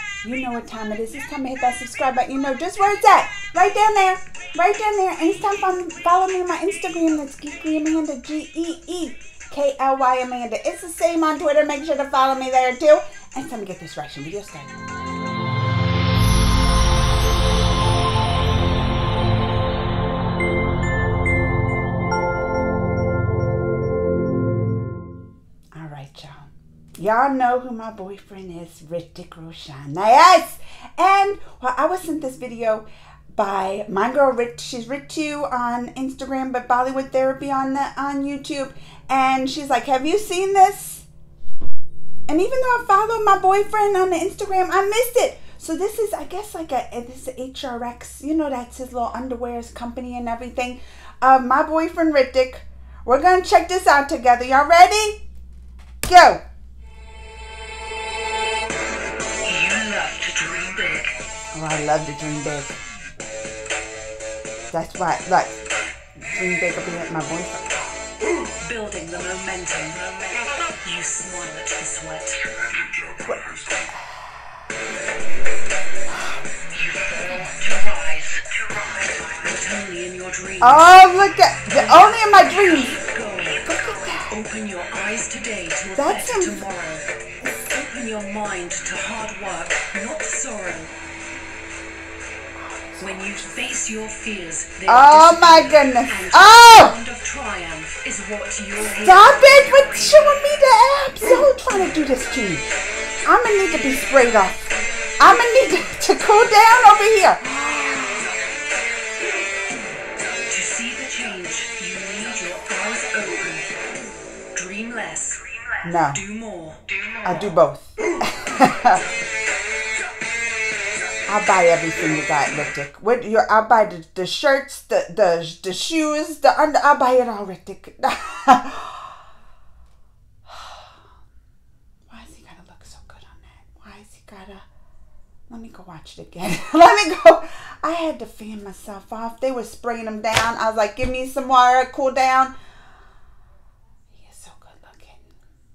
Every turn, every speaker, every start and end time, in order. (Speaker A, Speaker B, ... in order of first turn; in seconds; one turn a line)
Speaker A: 0.2-14.7
Speaker A: 25.8-41.1
Speaker A: 42.3-55.2
Speaker A: 56.1-56.4
Speaker B: 59.5-61.1
Speaker A: 61.5-62.8
Speaker A: 64.7-65.6
Speaker A: 66.2-67.9
Speaker B: 68.5-72.8
Speaker A: 73.2-73.8
Speaker B: 76.7-81.0
Speaker A: 80.6-83.0
Speaker B: 81.7-90.9
Speaker A: 83.7-84.3
Speaker A: 86.0-86.6
Speaker A: 92.7-93.0
Speaker B: 93.0-100.4
Speaker A: 94.9-97.0
Speaker A: 98.8-102.7
Speaker A: 103.3-108.3
Speaker B: 110.5-113.8
Speaker B: 114.5-117.4
Speaker A: 115.8-116.2
Speaker A: 117.2-119.0
Speaker A: 121.3-129.2
Speaker A: 130.5-130.9
Speaker A: 132.1-134.7
Speaker A: 135.5-142.5
Speaker A: 144.1-145.3